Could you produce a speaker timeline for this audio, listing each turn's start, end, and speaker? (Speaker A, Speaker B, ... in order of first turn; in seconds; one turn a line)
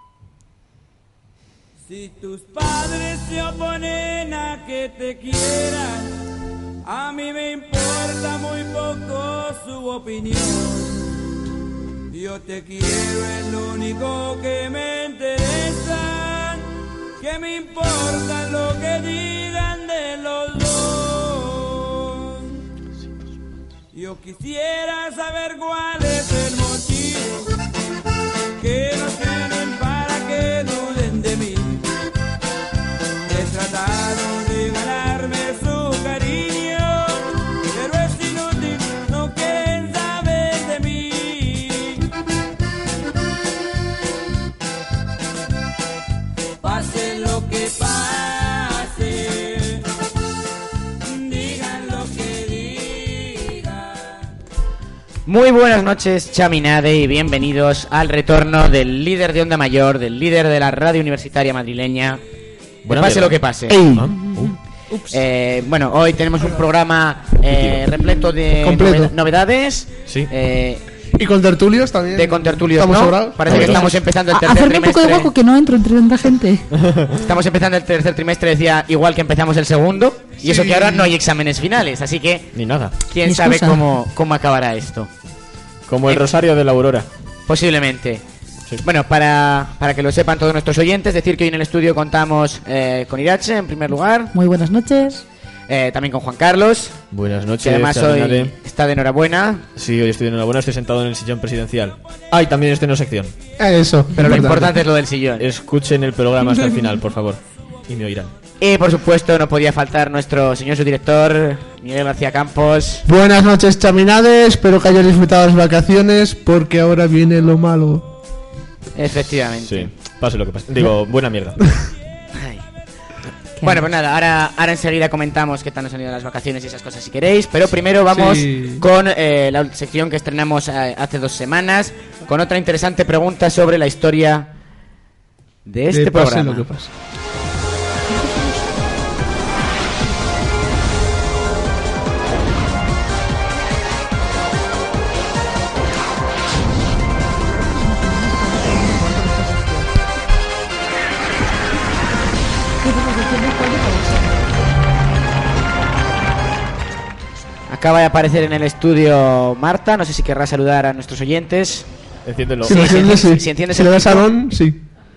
Speaker A: 1.9-6.2
Speaker A: 6.8-11.0
Speaker A: 12.1-16.6
Speaker A: 17.2-22.6
Speaker A: 23.9-27.5
Speaker A: 28.6-31.9
Speaker A: 33.3-42.1
Speaker A: 46.6-49.8
Speaker A: 51.0-54.2
Speaker B: 55.2-62.2
Speaker C: 62.8-63.4
Speaker B: 62.9-63.8
Speaker D: 63.7-64.1
Speaker C: 63.9-64.5
Speaker E: 64.4-65.2
Speaker B: 65.1-70.8
Speaker C: 67.5-67.8
Speaker D: 68.6-69.1
Speaker D: 71.1-73.8
Speaker B: 72.1-75.3
Speaker C: 73.5-73.9
Speaker E: 73.6-76.7
Speaker C: 76.8-77.1
Speaker B: 77.2-85.1
Speaker D: 80.4-81.0
Speaker C: 82.5-82.9
Speaker E: 83.2-83.8
Speaker C: 85.9-87.1
Speaker B: 87.5-88.2
Speaker B: 88.8-94.3
Speaker E: 94.3-95.2
Speaker B: 95.7-97.0
Speaker C: 97.1-98.5
Speaker B: 97.6-99.6
Speaker C: 99.8-103.3
Speaker D: 103.6-104.7
Speaker B: 104.2-105.4
Speaker C: 105.4-108.3
Speaker B: 108.6-113.0
Speaker D: 113.0-118.1
Speaker B: 119.0-119.9
Speaker C: 119.7-121.6
Speaker B: 122.3-122.6
Speaker B: 123.6-134.5
Speaker D: 128.1-128.8
Speaker B: 135.7-136.7
Speaker D: 135.9-136.9
Speaker E: 138.1-138.6
Speaker E: 147.9-149.9
Speaker E: 152.8-154.4
Speaker B: 157.7-161.9
Speaker C: 162.2-162.8
Speaker B: 162.7-164.3
Speaker D: 162.7-164.8